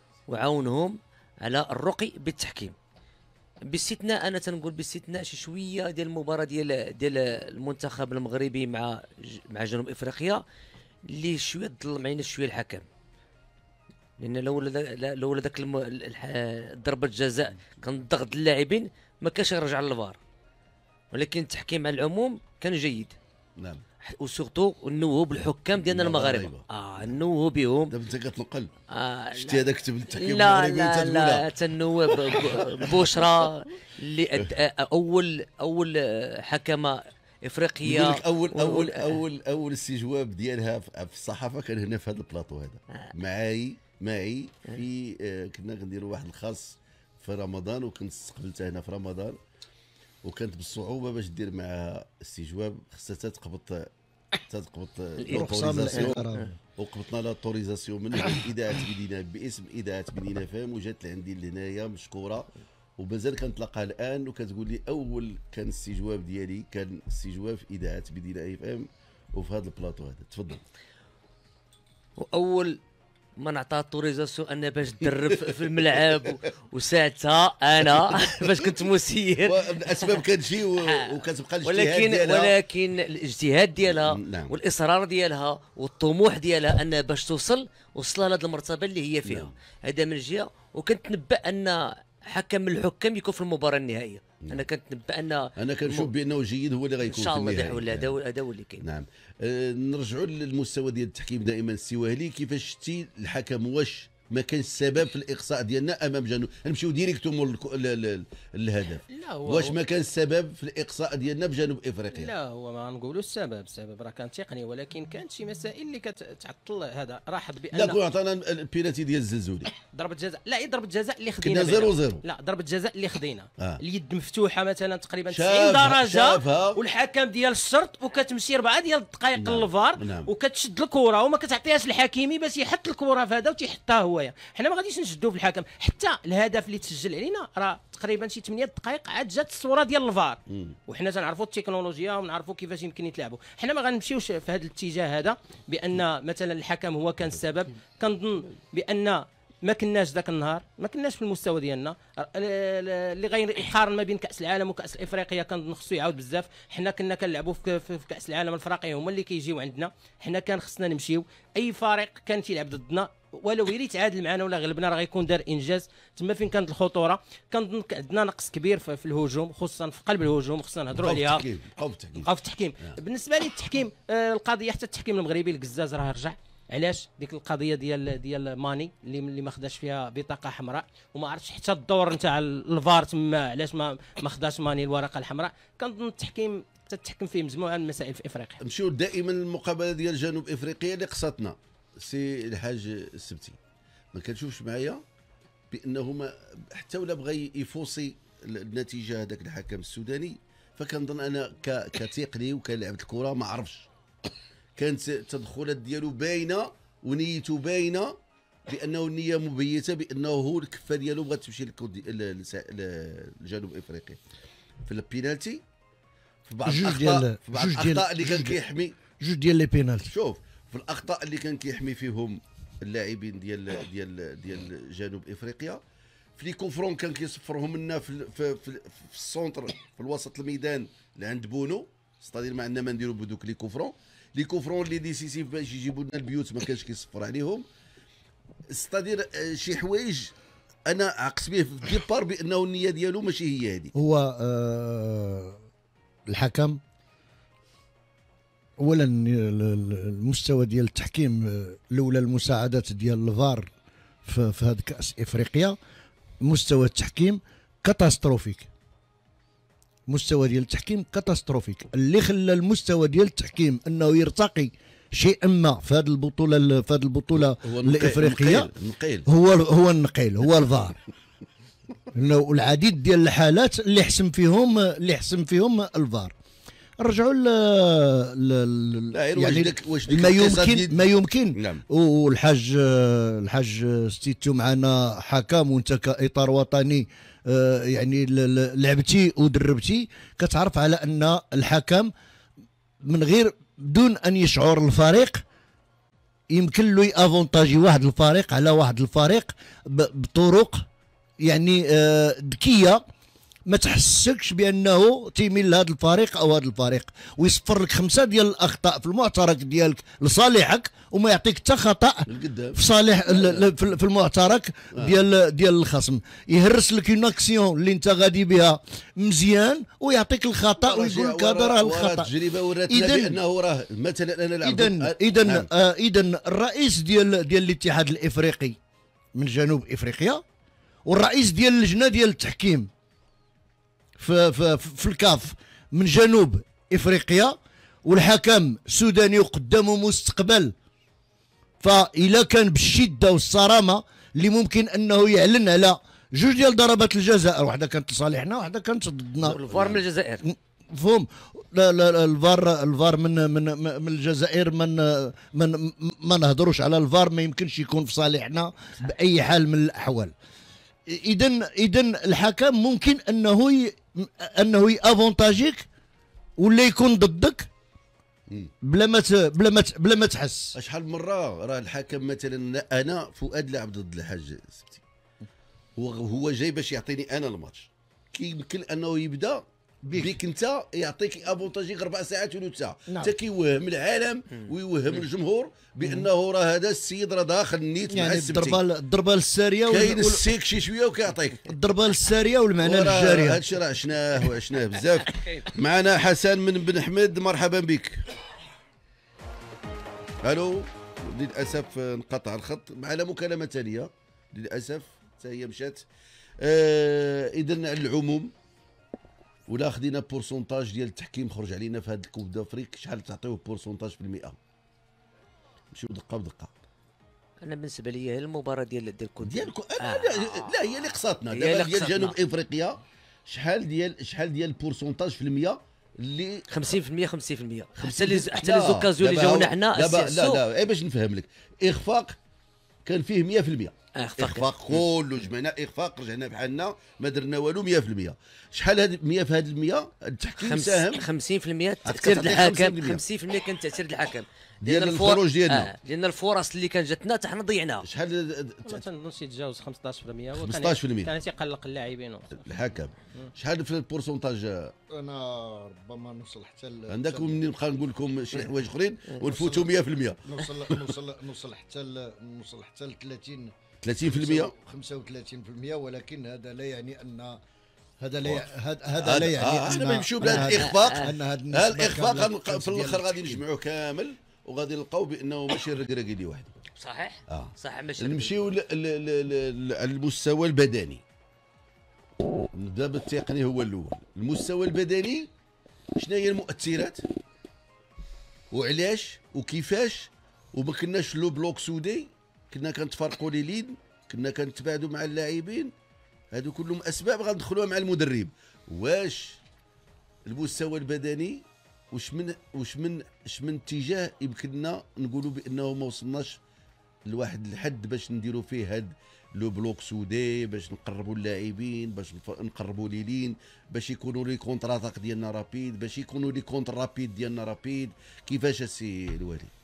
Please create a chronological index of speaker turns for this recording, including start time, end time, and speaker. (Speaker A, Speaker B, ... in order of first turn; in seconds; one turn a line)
Speaker A: 0.3-2.7
Speaker A: 3.7-10.4
Speaker A: 11.1-12.8
Speaker A: 14.2-20.2
Speaker A: 21.1-23.1
Speaker A: 24.0-27.9
Speaker B: 25.8-27.1
Speaker B: 27.9-28.7
Speaker A: 28.9-39.2
Speaker B: 29.4-31.4
Speaker B: 32.0-33.5
Speaker B: 37.8-49.4
Speaker B: 50.2-53.9
Speaker B: 54.5-56.2
Speaker A: 55.2-56.5
Speaker C: 55.3-56.5
Speaker B: 56.8-62.5
Speaker B: 63.0-70.6
Speaker A: 72.2-72.8
Speaker A: 73.4-80.2
Speaker B: 77.8-78.8
Speaker B: 79.4-82.5
Speaker A: 80.8-96.1
Speaker B: 83.8-84.6
Speaker B: 89.2-89.5
Speaker B: 95.6-98.1
Speaker A: 97.0-98.8
Speaker B: 98.8-112.3
Speaker D: 109.1-109.7
Speaker D: 112.1-118.0
Speaker B: 117.7-119.7
Speaker D: 119.9-171.4
Speaker B: 121.4-122.2
Speaker B: 125.3-126.8
Speaker B: 129.4-130.3
Speaker B: 140.5-140.8
Speaker B: 171.0-172.3
Speaker D: 172.2-188.6
Speaker B: 188.6-193.6
Speaker B: 194.1-195.0
Speaker B: 195.7-203.9
Speaker B: 204.8-208.1
Speaker B: 208.7-214.2
Speaker B: 214.8-215.6
Speaker B: 216.4-218.9
Speaker C: 216.7-218.6
Speaker C: 219.2-220.1
Speaker B: 220.1-225.8
Speaker B: 226.4-237.6
Speaker B: 238.7-240.3
Speaker B: 240.9-243.9
Speaker C: 243.9-245.6
Speaker C: 246.3-246.8
Speaker C: 248.8-253.7
Speaker C: 254.2-255.8
Speaker C: 256.4-258.7
Speaker C: 260.1-268.7
Speaker B: 267.6-269.2
Speaker C: 269.2-271.0
Speaker C: 272.1-276.3
Speaker C: 277.0-292.1
Speaker B: 279.1-281.0
Speaker B: 281.6-281.8
Speaker C: 293.0-295.4
Speaker C: 296.5-300.9
Speaker C: 301.4-303.0
Speaker C: 303.7-322.3
Speaker B: 312.3-312.8
Speaker B: 313.3-313.6
Speaker B: 320.8-325.7
Speaker C: 322.9-323.4
Speaker C: 324.6-328.8
Speaker C: 329.3-330.4
Speaker C: 331.1-332.9
Speaker C: 334.2-340.7
Speaker C: 341.8-360.3
Speaker A: 349.4-350.4
Speaker B: 349.7-350.0
Speaker C: 361.1-365.8
Speaker C: 366.6-367.7
Speaker C: 368.8-370.8
Speaker B: 370.7-375.0
Speaker B: 376.0-388.8
Speaker C: 380.0-380.4
Speaker C: 388.1-390.5
Speaker B: 389.9-391.7
Speaker C: 391.7-393.7
Speaker B: 392.8-398.2
Speaker B: 400.4-406.0
Speaker B: 406.6-408.5
Speaker B: 409.7-414.6
Speaker B: 415.9-416.7
Speaker A: 417.6-420.8
Speaker B: 419.4-427.0
Speaker A: 421.5-422.4
Speaker A: 426.7-430.6
Speaker B: 428.0-432.4
Speaker B: 433.1-441.2
Speaker A: 434.1-434.7
Speaker A: 440.6-448.1
Speaker B: 442.1-443.2
Speaker B: 444.8-445.9
Speaker B: 448.0-449.0
Speaker D: 448.8-452.6
Speaker B: 450.6-451.3
Speaker B: 452.6-454.9
Speaker C: 455.1-457.6
Speaker B: 457.1-461.1
Speaker C: 459.5-459.9
Speaker C: 460.5-467.6
Speaker B: 464.0-464.7
Speaker C: 468.2-473.6
Speaker B: 469.2-476.7
Speaker A: 470.4-471.3
Speaker A: 476.9-478.7
Speaker B: 477.5-481.2
Speaker B: 482.7-485.5
Speaker B: 486.2-487.2
Speaker B: 488.7-495.9
Speaker B: 496.5-499.6
Speaker B: 500.4-506.6
Speaker B: 507.3-519.7